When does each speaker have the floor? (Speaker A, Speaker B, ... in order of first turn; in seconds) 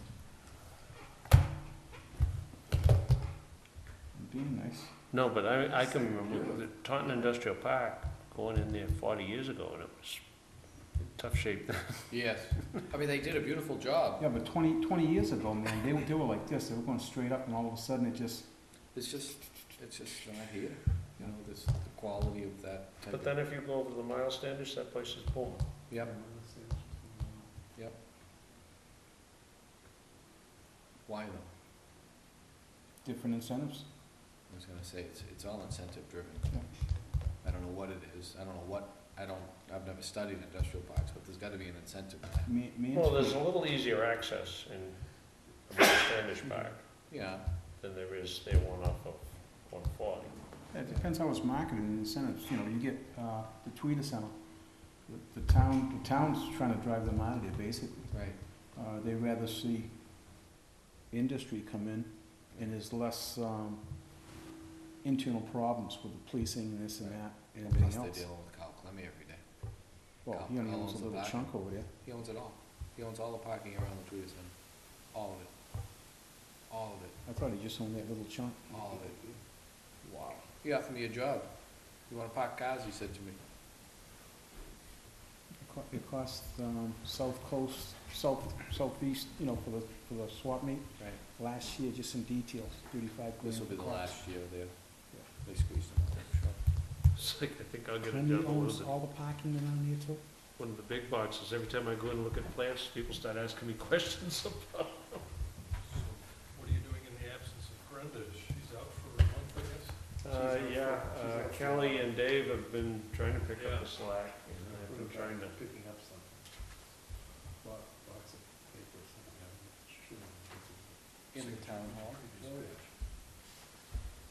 Speaker A: 4.1-4.9, 14.2-18.5, 26.0-27.4, 33.0-33.9, 42.5-43.4, 46.4-46.8, 50.7-60.5, 61.1-64.3, 65.0-68.3, 70.2-71.9, 77.2-79.0, 80.0-80.5, 85.6-94.2, 98.1-100.2
Speaker B: 5.1-12.2, 23.1-25.7, 42.9-50.5, 97.1-98.9, 100.5-105.4, 110.2-115.6
Speaker C: 5.9-6.6, 12.1-14.2, 18.9-23.4, 27.8-28.0, 31.1-31.5, 34.5-42.5, 47.1-47.5, 58.1-58.4, 67.0-76.2, 76.7-77.2, 78.7-79.2, 80.6-83.4, 91.0-91.2, 93.4-96.6, 121.3-122.6
Speaker D: 79.1-79.4, 105.8-112.2, 113.6-113.9, 114.5-123.1